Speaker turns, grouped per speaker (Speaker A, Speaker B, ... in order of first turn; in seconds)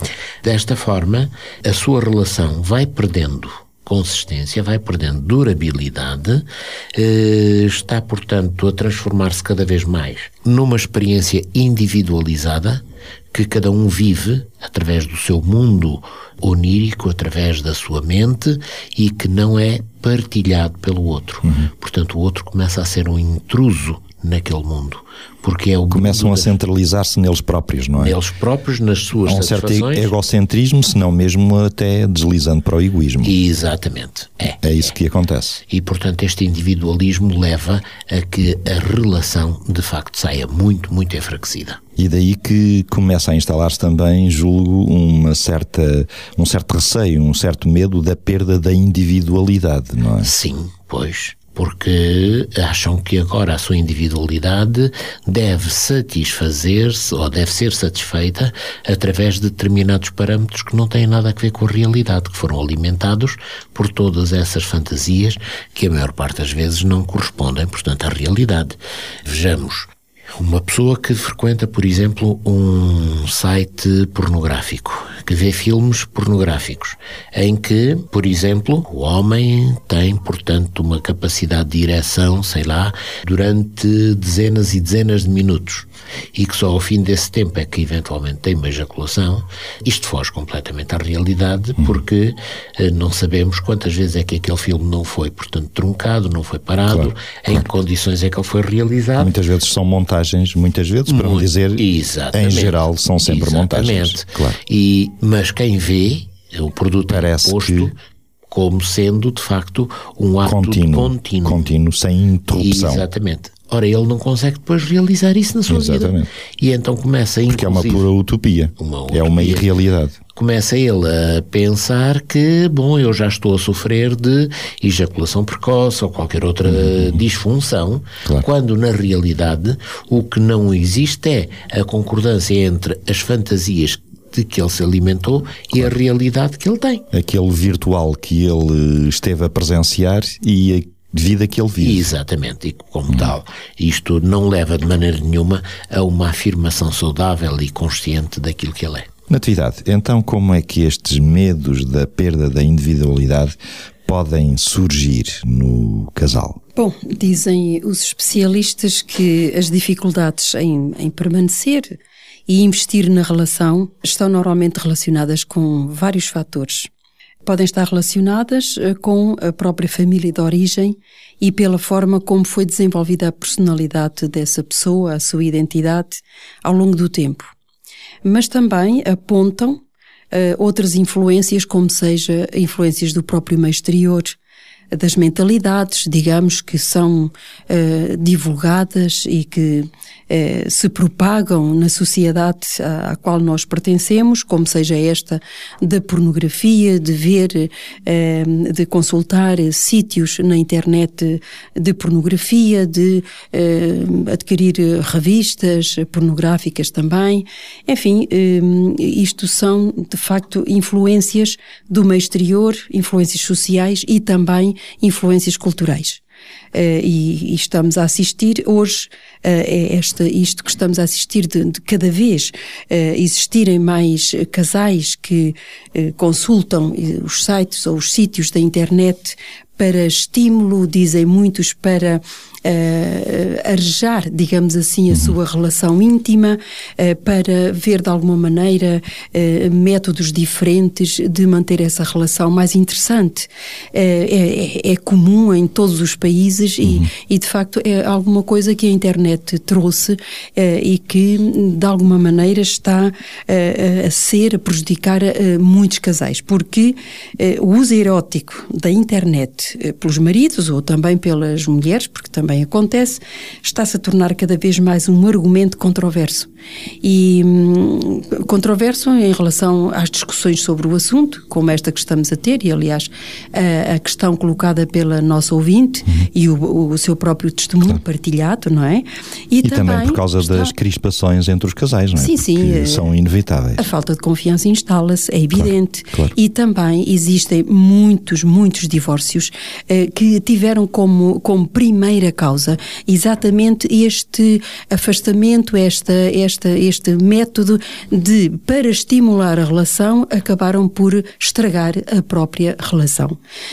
Speaker A: 0.4-26.6, 28.0-30.1, 33.2-34.8, 35.7-41.8, 50.2-99.3, 101.1-108.0, 108.5-111.7, 112.5-118.1, 118.8-119.7, 120.3-137.1, 141.8-149.1
Speaker B: 21.4-21.7, 25.9-28.2, 29.2-33.4, 34.6-35.6, 42.0-50.3, 96.9-97.7, 99.2-104.6, 107.1-107.9, 110.4-113.0, 115.7-116.3, 117.5-120.2, 137.1-142.1, 149.3-156.6, 279.6-283.8, 285.5-286.3
Speaker C: 156.8-162.0, 162.5-166.9, 167.4-177.5, 178.2-179.8, 180.3-184.4, 184.9-216.2, 216.7-266.5, 267.0-280.7, 282.2-283.1, 283.8-303.4